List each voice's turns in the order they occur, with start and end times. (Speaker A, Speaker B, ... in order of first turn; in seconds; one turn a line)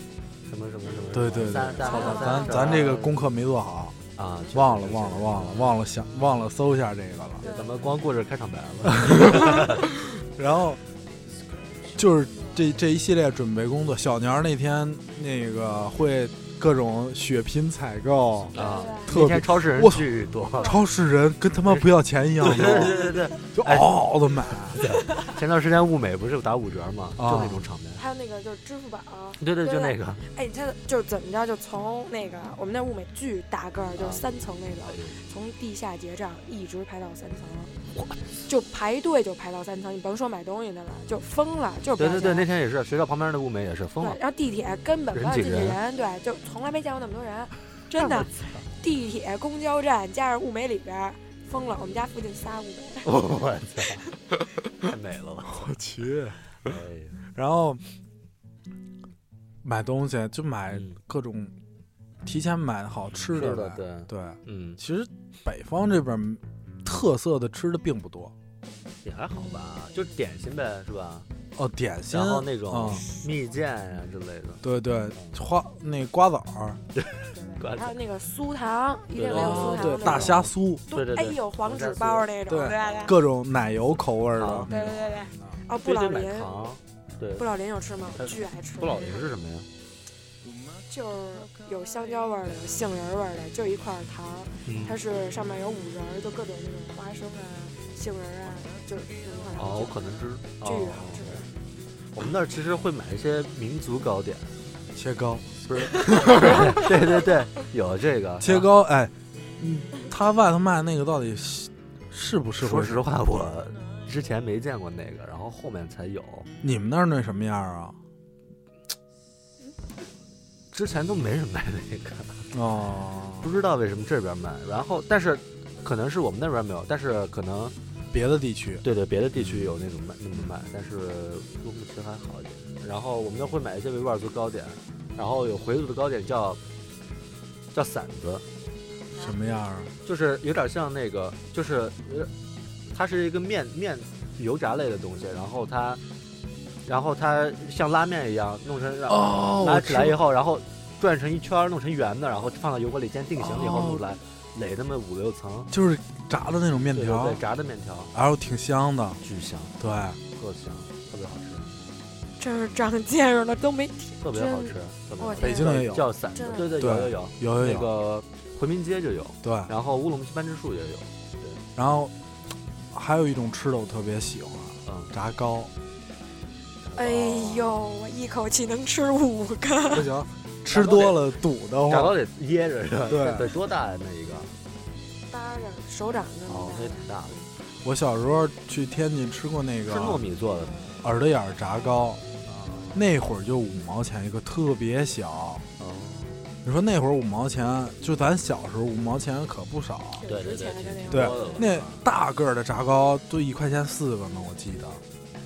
Speaker A: 0.5-3.2
Speaker B: 1.1-4.0
Speaker C: 1.8-2.8
Speaker A: 4.2-5.8
Speaker B: 4.5-7.4
Speaker C: 7.4-7.8
Speaker A: 7.4-9.9
Speaker B: 8.8-10.8
Speaker B: 11.9-24.8
Speaker A: 18.5-20.8
Speaker C: 18.5-19.1
Speaker A: 21.6-28.0
Speaker B: 27.2-27.6
Speaker C: 27.9-37.7
Speaker A: 29.4-30.2
Speaker A: 34.0-34.2
Speaker A: 34.8-35.2
Speaker A: 37.9-38.5
Speaker C: 38.5-42.5
Speaker A: 42.0-44.2
Speaker C: 44.0-53.1
Speaker A: 45.1-45.8
Speaker A: 47.9-48.6
Speaker A: 53.0-54.0
Speaker A: 54.8-55.7
Speaker B: 55.5-56.7
Speaker A: 56.5-57.2
Speaker B: 57.3-57.8
Speaker B: 59.6-61.5
Speaker A: 60.7-61.0
Speaker B: 62.2-68.3
Speaker A: 63.2-64.8
Speaker A: 69.0-71.3
Speaker B: 71.5-73.0
Speaker A: 72.1-74.6
Speaker B: 74.6-76.8
Speaker A: 75.1-75.4
Speaker A: 76.9-78.0
Speaker C: 77.3-83.2
Speaker A: 79.1-83.0
Speaker B: 79.3-80.8
Speaker B: 82.5-84.8
Speaker A: 84.4-85.0
Speaker C: 84.7-86.5
Speaker A: 85.8-87.4
Speaker C: 87.4-89.3
Speaker A: 88.1-89.7
Speaker C: 90.9-100.0
Speaker A: 94.6-95.0
Speaker A: 99.5-101.5
Speaker C: 100.6-101.5
Speaker A: 102.1-104.5
Speaker B: 104.9-106.8
Speaker A: 105.7-108.7
Speaker C: 105.9-106.8
Speaker B: 108.4-113.0
Speaker A: 112.6-116.5
Speaker B: 116.6-118.0
Speaker A: 120.7-122.5
Speaker B: 122.5-123.5
Speaker A: 123.4-127.7
Speaker B: 128.1-128.8
Speaker A: 128.8-136.6
Speaker B: 129.3-129.7
Speaker A: 137.7-138.4
Speaker B: 139.2-139.9
Speaker A: 140.0-142.3
Speaker A: 142.9-146.0
Speaker A: 146.8-155.7
Speaker B: 149.1-150.2
Speaker B: 153.4-154.0
Speaker B: 155.7-157.4
Speaker A: 156.9-158.1
Speaker B: 158.1-159.2
Speaker A: 159.2-161.7
Speaker B: 159.8-160.2
Speaker C: 162.4-166.8
Speaker A: 164.2-171.6
Speaker B: 165.4-166.1
Speaker B: 166.7-167.9
Speaker B: 169.4-169.7
Speaker B: 171.7-172.1
Speaker B: 172.9-175.7
Speaker A: 174.8-175.1
Speaker A: 176.8-177.7
Speaker C: 176.9-180.1
Speaker B: 179.9-182.2
Speaker A: 180.7-184.5
Speaker B: 183.1-183.5
Speaker C: 185.3-187.4
Speaker A: 186.5-187.4
Speaker B: 187.8-190.2
Speaker A: 189.9-190.8
Speaker B: 191.0-192.2
Speaker A: 192.4-193.0
Speaker B: 192.9-195.7
Speaker A: 195.8-196.4
Speaker B: 196.6-200.2
Speaker C: 200.1-201.7
Speaker A: 200.2-202.1
Speaker B: 201.1-205.0